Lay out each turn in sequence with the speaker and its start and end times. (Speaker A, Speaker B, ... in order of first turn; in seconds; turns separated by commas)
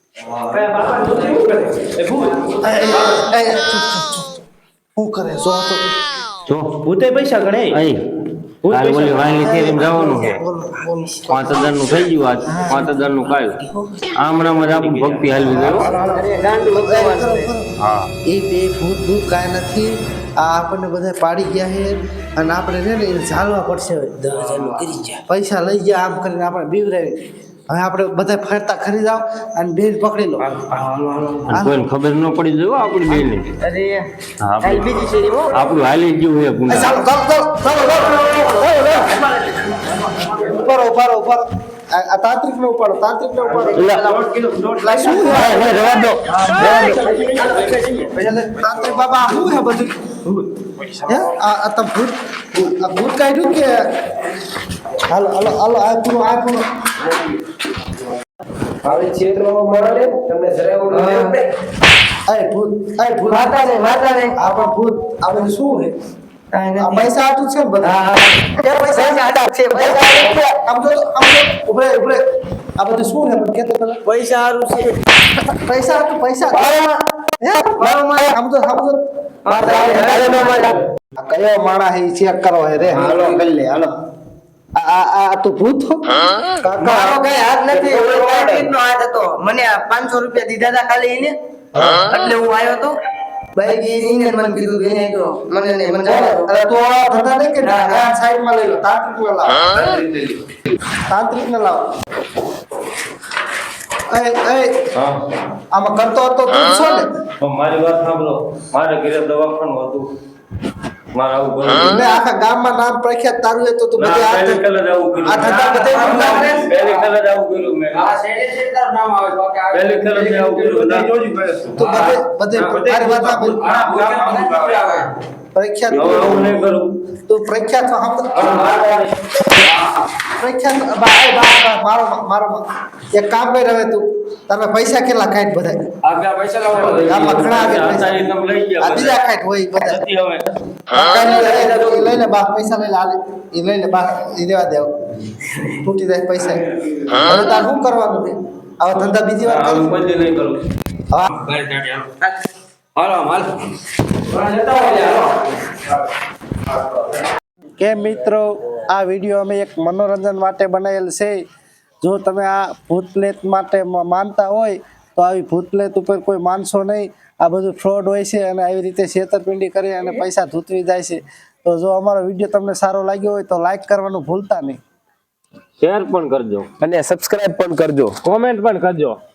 Speaker A: 0.4-2.4, Speaker B: 2.6-4.3, Speaker B: 5.0-5.8, Speaker C: 6.5-6.8, Speaker A: 6.8-7.8, Speaker C: 7.7-8.0, Speaker C: 8.7-10.4, Speaker A: 8.7-9.2, Speaker B: 9.3-11.6, Speaker C: 11.3-13.6, Speaker D: 12.5-13.2, Speaker C: 14.2-15.9, Speaker A: 14.7-15.5, Speaker B: 15.4-17.7, Speaker D: 15.7-17.5, Speaker C: 17.8-18.1, Speaker B: 18.2-24.5, Speaker E: 24.4-25.2, Speaker D: 24.5-24.9, Speaker B: 25.3-30.6, Speaker C: 31.5-33.5, Speaker B: 31.5-31.8, Speaker D: 33.6-34.1, Speaker C: 34.4-37.0, Speaker D: 34.6-35.7, Speaker B: 36.7-39.1, Speaker C: 38.6-39.1, Speaker B: 40.3-45.8, Speaker D: 43.6-44.6, Speaker C: 43.7-44.1, Speaker C: 45.2-48.0, Speaker D: 46.5-47.7, Speaker E: 47.1-47.7, Speaker B: 48.0-50.2, Speaker B: 51.0-53.8, Speaker B: 55.0-56.7, Speaker E: 58.8-61.5, Speaker D: 60.9-61.4, Speaker B: 62.3-63.6, Speaker D: 63.3-64.4, Speaker B: 64.4-66.0, Speaker D: 66.5-67.1, Speaker B: 66.8-68.0, Speaker D: 67.8-70.4, Speaker B: 68.7-69.3, Speaker C: 69.9-70.5, Speaker B: 70.6-72.2, Speaker B: 72.8-74.0, Speaker D: 74.0-75.0, Speaker B: 75.2-76.7, Speaker C: 76.6-76.8, Speaker B: 77.4-79.0, Speaker D: 77.9-78.2, Speaker D: 79.5-80.8, Speaker C: 79.5-80.8, Speaker B: 81.2-83.9, Speaker D: 83.0-83.4, Speaker B: 84.8-87.2, Speaker D: 86.8-91.4, Speaker C: 87.7-88.6, Speaker B: 91.7-92.1, Speaker D: 92.0-93.0, Speaker D: 93.5-96.5, Speaker B: 96.0-99.8, Speaker D: 97.6-98.1, Speaker C: 100.0-100.3, Speaker B: 101.1-101.8, Speaker B: 104.1-104.8, Speaker C: 104.9-105.2, Speaker B: 105.7-107.1, Speaker C: 107.4-110.1, Speaker C: 111.1-112.1, Speaker B: 111.8-114.6, Speaker C: 114.0-118.3, Speaker B: 115.2-116.6, Speaker E: 115.8-117.0, Speaker E: 118.0-120.6, Speaker C: 119.7-121.1, Speaker A: 120.3-121.9, Speaker B: 121.8-123.8, Speaker A: 122.7-124.8, Speaker E: 123.6-125.0, Speaker B: 125.5-126.7, Speaker C: 125.9-126.9, Speaker B: 127.3-128.6, Speaker C: 128.3-129.8, Speaker B: 130.4-135.9, Speaker C: 136.0-139.2, Speaker B: 136.9-138.2, Speaker B: 138.8-140.1, Speaker C: 139.8-140.5, Speaker B: 140.9-144.9, Speaker C: 141.1-142.2, Speaker B: 145.7-149.9, Speaker C: 149.4-150.6, Speaker B: 151.1-151.4, Speaker C: 151.4-152.1, Speaker C: 153.0-153.4, Speaker C: 154.5-155.0, Speaker B: 157.8-161.4, Speaker B: 162.0-174.8, Speaker C: 175.8-176.7, Speaker E: 176.8-178.2, Speaker A: 178.4-178.7